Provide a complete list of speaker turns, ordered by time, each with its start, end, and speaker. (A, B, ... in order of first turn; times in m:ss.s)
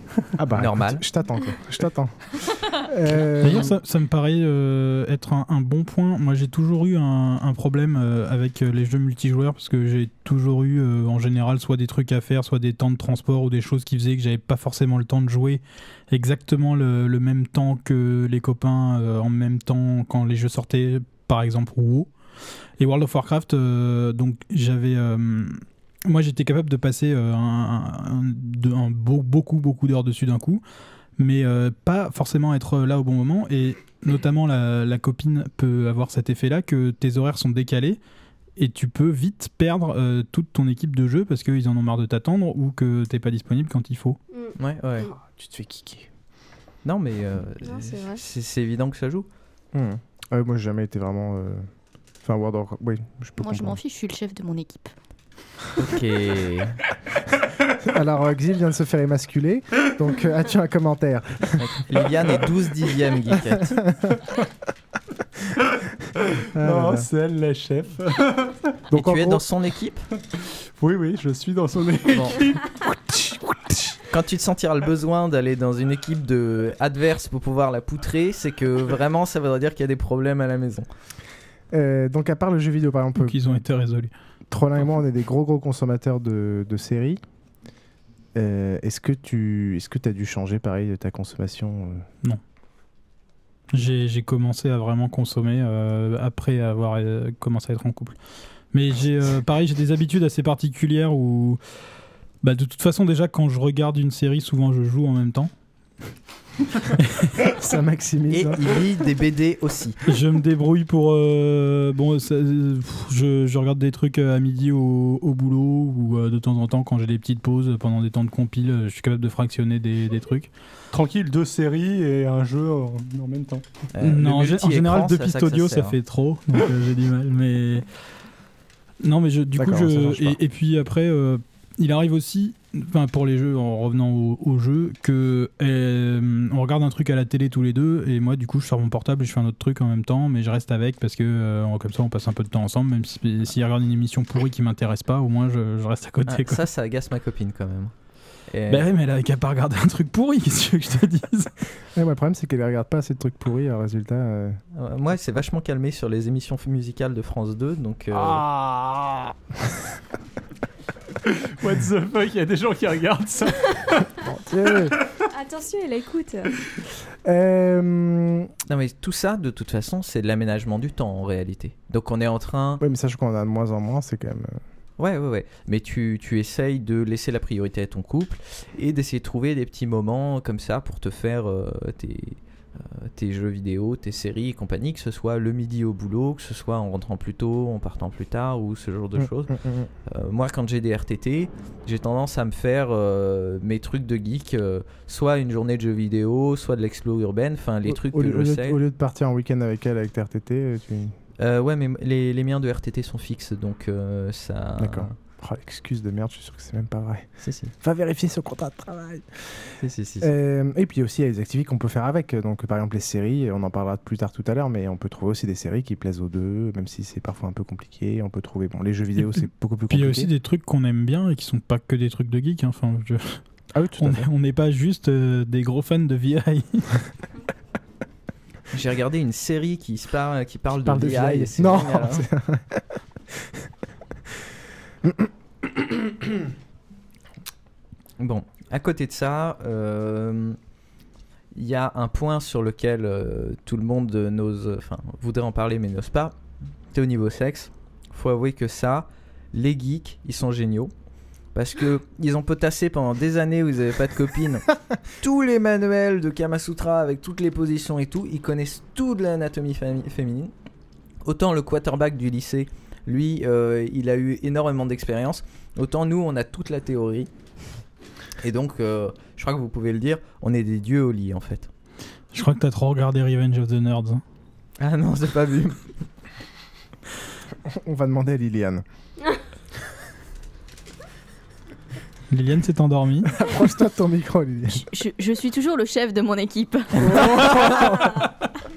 0:00.4-0:02.2 A
0:00.5-0:01.0 B
0:02.8-0:03.7 A
0:03.4-0:22.1 C
0:22.8-0:30.6 C
0:31.2-0:38.0 C
0:38.6-0:44.2 C
0:44.3-0:45.1 D
0:44.6-0:45.1 B
0:45.0-0:46.1 A
0:46.8-0:49.3 B
0:47.6-0:48.2 D
0:49.7-0:51.6 A
0:52.2-0:53.8 A
0:53.4-0:54.9 E
0:55.8-0:56.8 B
0:57.8-1:01.6 A
1:01.6-1:03.8 B
1:03.5-1:03.8 A
1:06.5-1:07.1 A
1:06.6-1:08.6 F
1:08.9-1:09.4 A
1:08.9-1:10.0 B
1:10.8-1:12.6 F
1:12.1-1:12.4 B
1:14.1-1:20.9 B
1:21.7-1:23.4 A
1:23.2-1:24.1 C
1:24.5-1:27.2 A
1:28.3-1:32.0 A
1:33.7-1:38.2 C
1:38.7-1:41.6 C
1:42.4-1:45.5 C
1:46.9-1:47.4 C
1:47.5-1:48.8 A
1:48.3-1:50.0 B
1:50.0-2:00.5 C
2:00.9-2:03.6 F
2:03.9-2:06.0 B
2:04.0-2:07.8 C
2:09.0-2:26.6 C
2:09.6-2:10.4 A
2:26.2-2:27.9 B
2:28.5-2:28.9 B
2:28.7-2:31.5 C
2:31.9-2:34.6 A
2:34.8-2:38.4 B
2:38.1-2:39.3 F
2:41.4-2:44.0 F
2:44.2-2:45.0 A
2:45.3-2:46.5 D
2:47.2-2:48.5 A
2:48.7-2:52.8 B
2:52.8-2:54.6 A
2:55.0-3:09.5 B
3:09.2-3:09.9 A
3:10.1-3:18.8 B
3:17.8-3:21.1 A
3:21.4-3:25.1 B
3:24.8-3:27.3 A
3:27.4-3:27.7 B
3:27.8-3:29.2 A
3:29.8-3:30.3 B
3:30.2-3:40.3 A
3:39.9-3:43.4 C
3:43.7-3:44.3 A
3:44.0-3:46.9 C
3:48.7-3:52.2 B
3:50.8-3:52.8 A
3:55.0-3:56.5 A
3:58.2-4:00.6 B
4:01.5-4:06.3 B
4:06.9-4:10.9 B
4:11.5-4:14.6 B
4:15.2-4:20.5 B
4:21.2-4:27.3 B
4:28.4-4:31.7 B
4:32.3-4:34.2 C
4:34.8-4:35.8 B
4:37.6-4:38.8 A
4:42.3-4:43.4 C
4:43.4-4:44.8 A
4:44.7-4:47.6 E
4:47.0-4:48.2 A
4:47.1-4:47.6 B